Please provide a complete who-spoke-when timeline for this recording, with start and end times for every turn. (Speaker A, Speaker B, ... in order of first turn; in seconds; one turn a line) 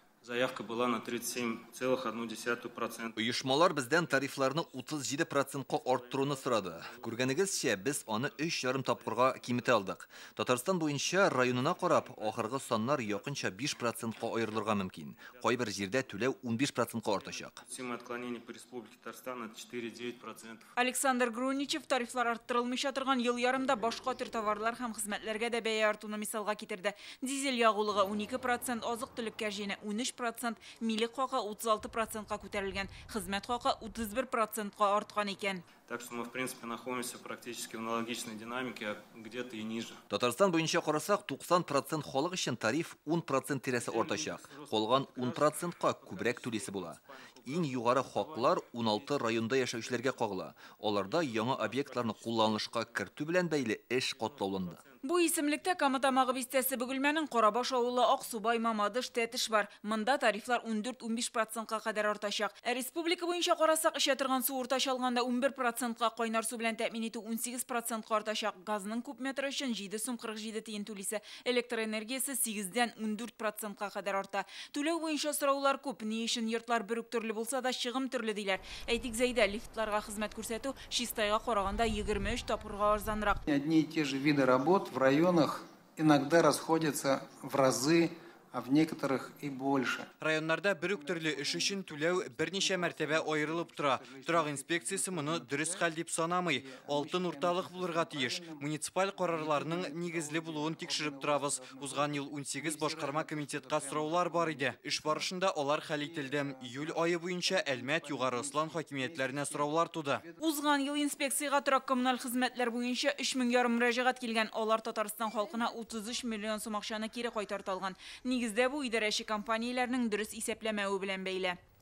Speaker A: 0.2-3.2
Speaker B: 3.2-17.6
Speaker A: 4.0-4.8
Speaker A: 5.7-9.9
Speaker A: 11.0-16.3
Speaker A: 17.1-20.7
Speaker C: 20.8-35.6
Speaker A: 35.9-40.0
Speaker B: 40.1-54.8
Speaker A: 43.7-50.3
Speaker A: 51.0-53.4
Speaker A: 54.1-55.0
Speaker C: 55.0-83.4
Speaker D: 83.5-90.1
Speaker E: 90.2-110.2
Speaker D: 90.8-95.9
Speaker D: 96.5-105.3
Speaker D: 105.9-110.4
Speaker C: 110.4-121.6